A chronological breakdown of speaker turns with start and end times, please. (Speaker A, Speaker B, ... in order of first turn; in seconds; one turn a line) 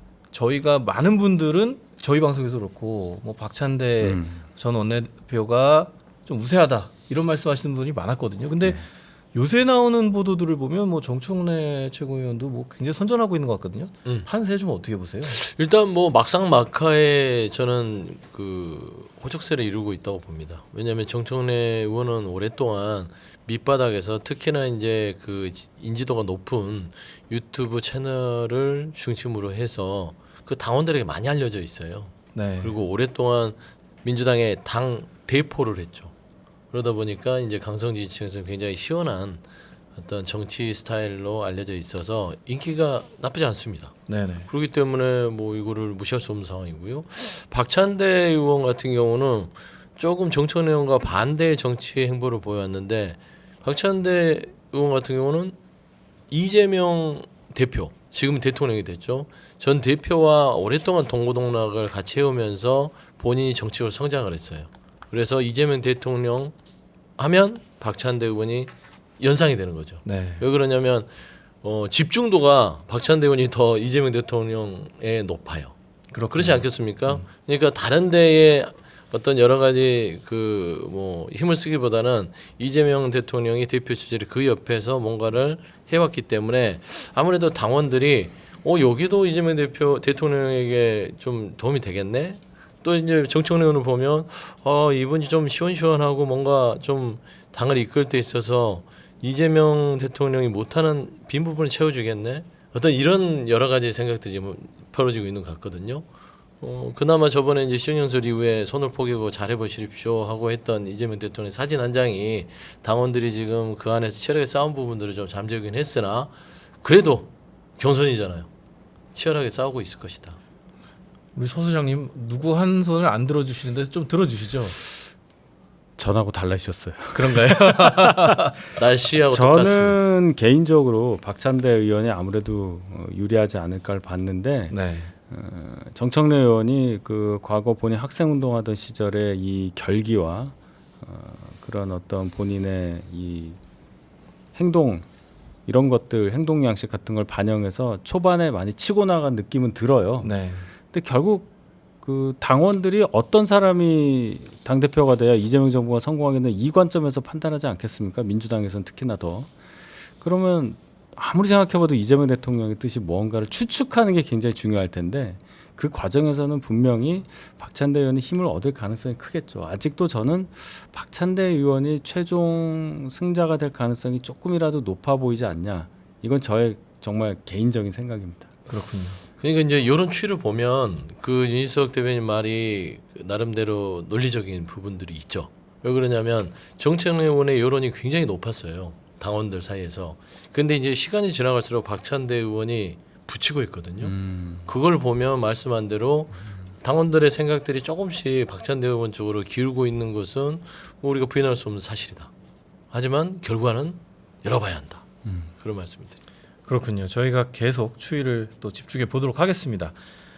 Speaker A: 0.3-15.4
Speaker B: 4.0-4.4
Speaker C: 15.2-36.1
Speaker A: 32.3-32.8
Speaker C: 36.7-39.4
Speaker C: 39.9-55.5
Speaker A: 44.1-44.5
Speaker C: 56.3-66.5
Speaker C: 67.2-75.7
Speaker A: 70.0-70.4
Speaker A: 76.1-77.2
Speaker C: 76.3-106.0
Speaker C: 106.6-118.5
Speaker C: 119.1-120.4
Speaker A: 121.3-124.8
Speaker B: 126.0-128.5
Speaker A: 127.1-128.6
Speaker C: 128.7-130.0
Speaker B: 129.3-134.7
Speaker A: 134.7-135.1
Speaker B: 135.3-143.6
Speaker B: 144.5-145.1
Speaker B: 145.7-150.3
Speaker A: 150.2-150.7
Speaker B: 150.9-151.5
Speaker B: 152.0-159.5
Speaker B: 160.2-178.5
Speaker A: 178.7-179.2
Speaker C: 179.4-202.3
Speaker B: 194.0-194.6
Speaker C: 202.9-205.0
Speaker C: 205.6-206.2
Speaker A: 206.7-209.9